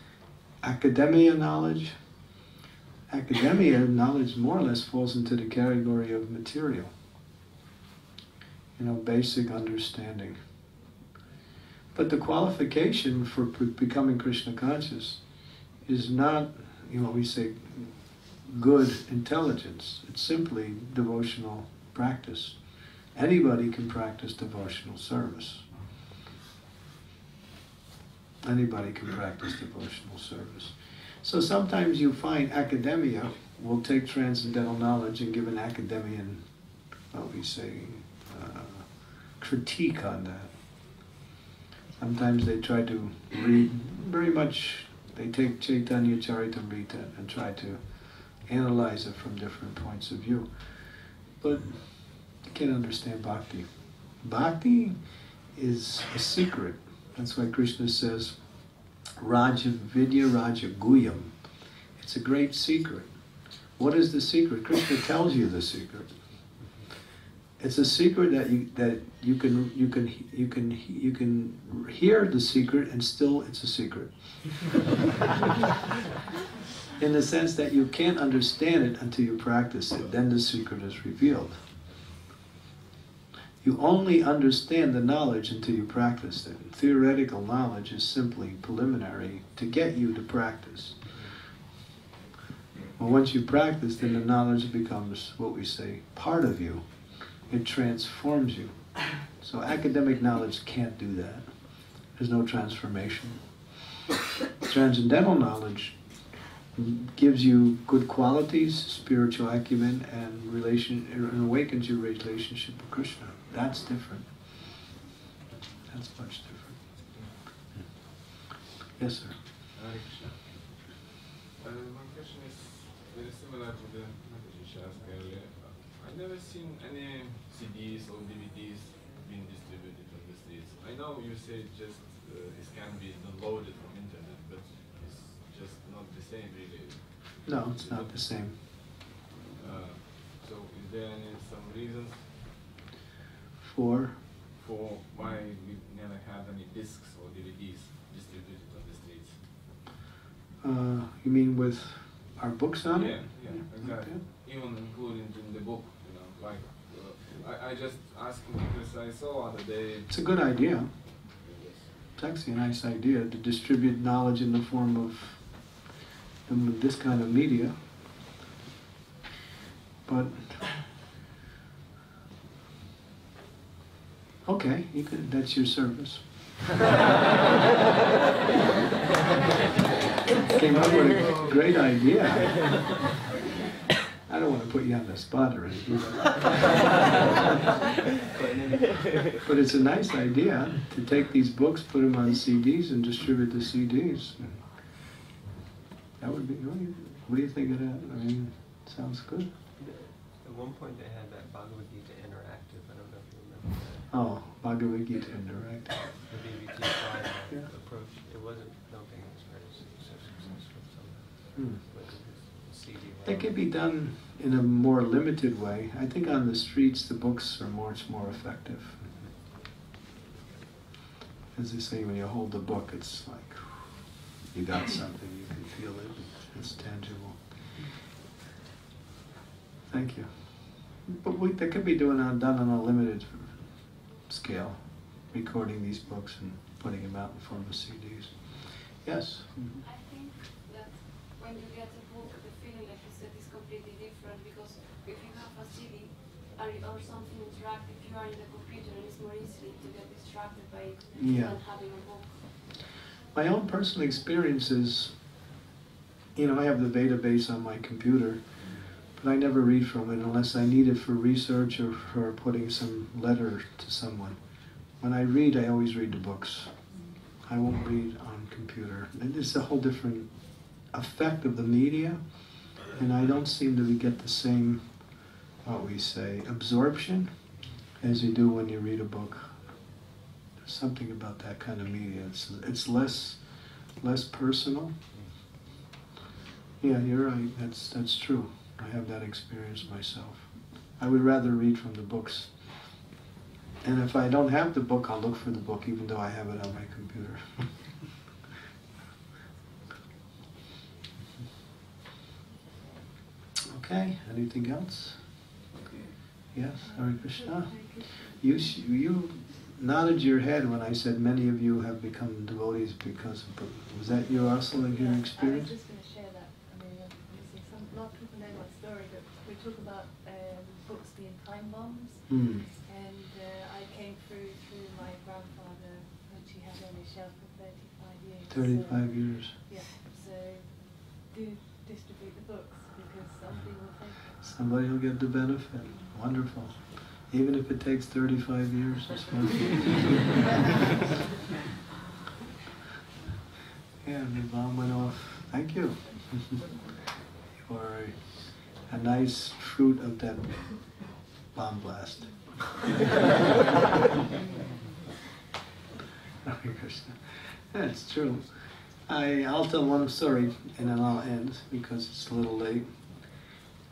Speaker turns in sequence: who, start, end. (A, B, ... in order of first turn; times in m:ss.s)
0:00.6-0:01.9 A
0:03.1-0:06.9 A
0:08.8-0:10.4 A
0:11.9-0:25.7 A
0:28.4-0:40.5 A
0:42.0-0:50.7 A
0:51.4-0:55.0 A
0:55.5-0:58.4 A
0:59.2-1:03.2 A
1:03.8-1:06.2 A
1:07.6-1:14.9 A
1:17.0-1:21.6 A
1:23.6-1:31.1 A
1:33.0-1:36.9 A
1:37.4-1:43.4 A
1:44.6-1:46.0 A
1:46.7-1:54.6 A
1:55.9-1:56.8 A
1:57.1-1:57.6 B
1:59.0-1:59.4 A
1:59.7-2:00.9 B
2:01.6-2:19.0 B
2:17.4-2:18.6 A
2:19.5-2:22.4 B
2:23.6-2:24.2 A
2:24.5-2:29.5 B
2:30.6-2:34.2 A
2:32.8-2:42.0 B
2:40.1-2:40.9 A
2:42.2-2:45.8 A
2:46.5-2:47.8 A
2:50.0-2:50.7 A
2:54.4-2:56.2 A
3:00.4-3:02.9 A
3:04.3-3:06.8 A
3:09.4-3:14.6 A
3:16.2-3:19.5 A
3:19.8-3:24.0 C
3:24.1-3:26.1 A
3:26.3-3:33.5 C
3:31.5-3:31.8 A
3:33.2-3:39.2 A
3:41.5-3:47.7 A
3:49.9-3:59.8 A
3:59.8-4:12.7 D
4:11.2-4:11.6 A
4:13.3-4:15.1 A
4:16.3-4:18.4 A
4:19.1-4:26.8 A
4:26.9-4:27.2 E
4:27.4-4:37.3 A
4:38.0-4:39.6 A
4:40.6-4:44.9 A
4:46.8-4:52.9 A
4:53.8-4:57.8 A
5:03.7-5:05.2 A
5:06.5-5:15.7 A
5:06.8-5:08.8 E
5:14.0-5:34.6 E
5:22.3-5:22.7 A
5:28.5-5:29.6 A
5:34.4-5:40.4 A
5:35.8-5:36.1 E
5:44.0-5:46.6 A
5:47.6-5:52.7 A
5:56.4-6:02.9 A